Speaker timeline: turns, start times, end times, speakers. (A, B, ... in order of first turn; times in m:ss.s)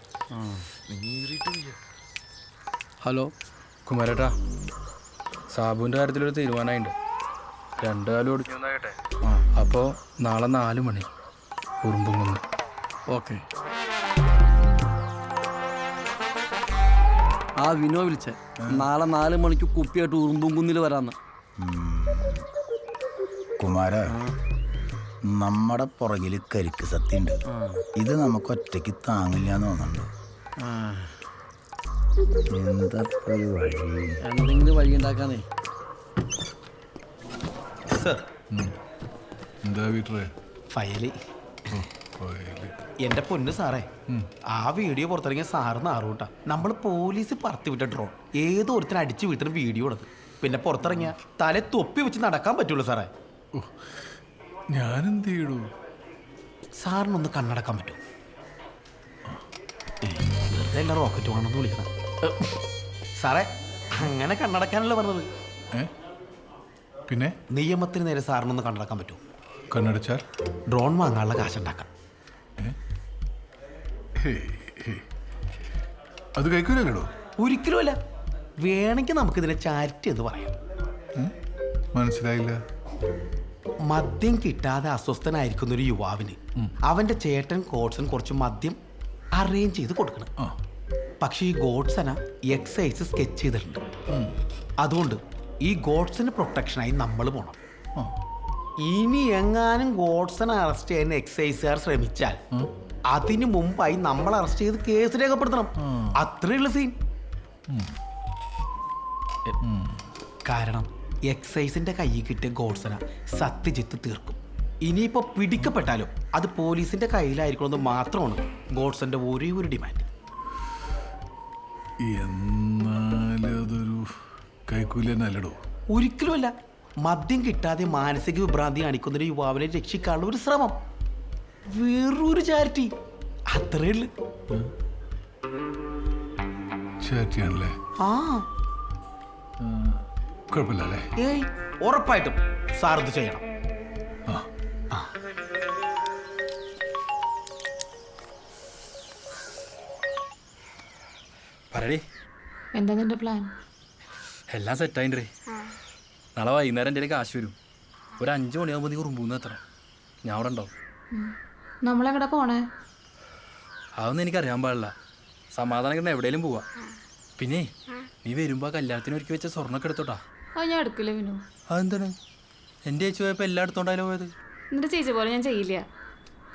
0:03.0-0:03.3 A
0:03.8-0:04.3 B
0:05.5-0:06.9 B
0:07.8-0:08.9 B
0:09.5-0:11.1 B
0:11.8-0:12.4 B
0:13.1-0:13.4 A
0:17.6-0:21.2 A
0:18.6-0:18.9 C
0:21.6-0:22.4 C
0:23.6-0:24.1 C
0:24.1-0:24.3 A
0:25.3-0:27.4 C
0:27.5-0:27.8 A
0:28.0-0:30.1 C
0:30.6-0:31.1 A
0:32.5-0:34.2 C
0:34.2-0:35.4 A
0:37.9-0:38.2 D
0:39.6-0:40.3 E
0:40.7-0:41.2 D
0:41.7-0:42.7 E
0:43.0-0:43.9 D
0:44.5-0:53.1 D
0:54.7-0:55.6 E
0:56.8-0:58.0 D
1:00.0-1:02.3 D
1:03.2-1:05.2 D
1:07.1-1:07.3 E
1:07.5-1:09.2 D
1:09.7-1:10.2 E
1:10.7-1:11.9 D
1:14.2-1:15.0 E
1:16.4-1:17.1 E
1:17.4-1:18.0 D
1:18.6-1:20.5 D
1:21.9-1:22.6 E
1:23.9-1:28.8 D
1:29.3-1:30.3 D
1:31.2-1:33.8 D
1:34.8-1:37.6 D
1:38.8-1:42.4 D
1:43.1-1:46.9 D
1:49.6-1:50.0 E
1:50.4-2:00.0 D
2:02.1-2:04.0 E
2:04.7-2:05.6 E
2:05.9-2:10.8 D
2:11.7-2:12.9 D
2:13.5-2:14.1 D
2:17.0-2:17.7 E
2:18.0-2:18.4 D
2:19.6-2:20.0 E
2:20.5-2:21.0 E
2:21.2-2:23.4 D
2:31.7-2:32.0 B
2:32.7-2:33.5 F
2:34.5-2:35.3 B
2:36.4-2:37.6 B
2:38.2-2:39.6 B
2:40.2-2:40.7 B
2:41.8-2:42.6 F
2:44.0-2:44.9 B
2:45.5-2:46.6 B
2:47.4-2:47.7 B
2:48.2-2:50.2 B
2:50.6-2:51.4 F
2:51.7-2:52.1 B
2:52.8-2:54.3 B
2:54.7-2:55.8 F